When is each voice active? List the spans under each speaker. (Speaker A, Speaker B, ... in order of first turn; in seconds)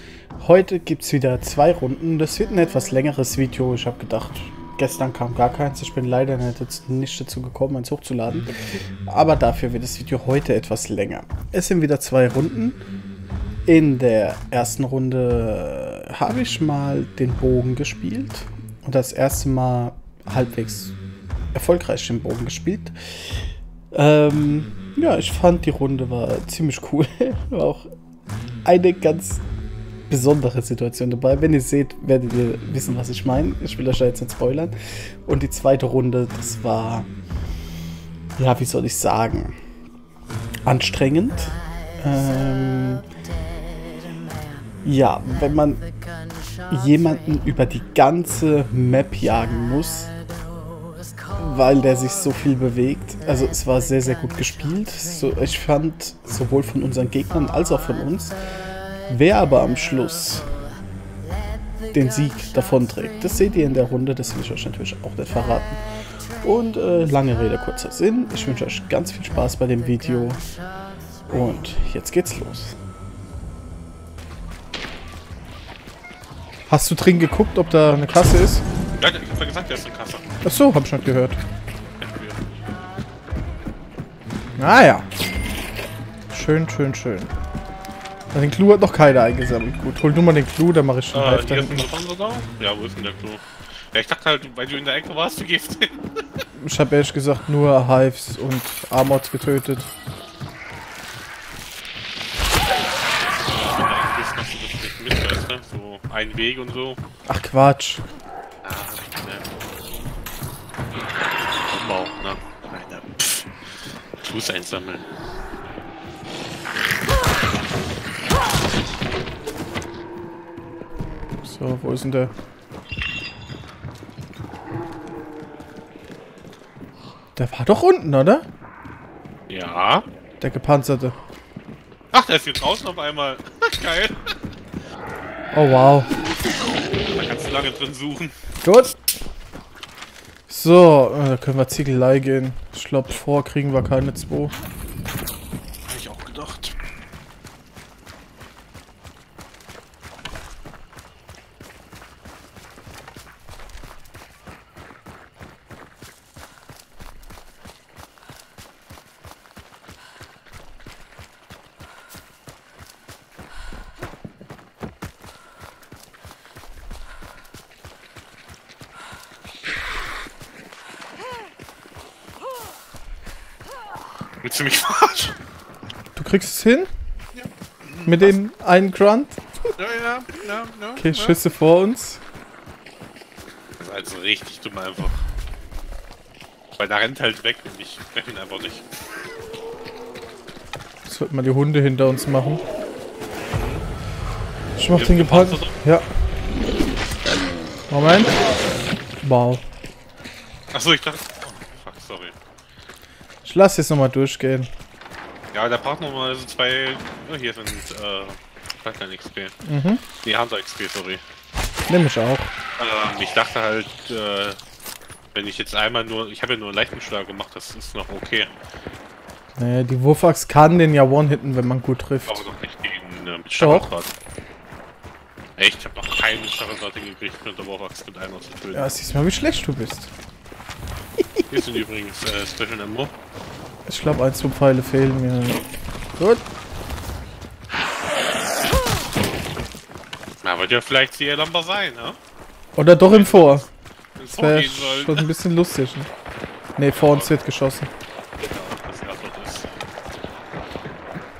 Speaker A: 0.4-12.8, 13.7-20.9, 21.5-27.9, 28.6-29.4, 30.1-37.1, 38.4-39.6, 40.6-43.0, 44.8-45.8, 46.7-50.1, 51.3-58.4, 59.1-60.5, 61.9-65.8, 66.4-70.4, 71.3-72.8, 76.7-78.6, 80.4-81.4, 84.6-85.1, 86.3-87.3, 88.3-91.9, 96.5-99.9, 107.2-108.0, 121.4-122.3, 127.3-128.4, 130.4-131.2, 135.5-136.1, 138.6-138.9, 140.5-144.5, 176.1-176.9, 178.1-179.4, 181.0-182.2, 191.1-192.6, 194.8-196.1, 197.9-198.3, 199.2-199.6, 203.4-204.7, 209.6-210.0, 211.9-212.5, 219.6-222.5, 223.6-223.9, 228.7-230.1, 233.8-236.4, 242.8-243.7, 244.4-246.1, 246.8-247.9
Speaker B: 79.0-80.3, 82.0-82.4, 91.1-96.0, 103.3-107.0, 108.6-109.5, 111.7-113.5, 114.2-115.1, 129.5-130.0, 132.1-134.3, 137.1-138.3, 145.8-146.7, 174.4-175.3, 177.3-178.3, 179.8-181.4, 183.8-185.2, 186.8-188.8, 193.5-193.8, 194.9-195.7, 200.7-202.3, 205.5-209.5, 210.2-211.2, 212.8-214.6, 215.3-218.5, 222.3-224.1, 225.6-228.9, 231.5-233.1, 240.4-242.2, 243.1-245.2, 246.9-247.3, 248.4-249.7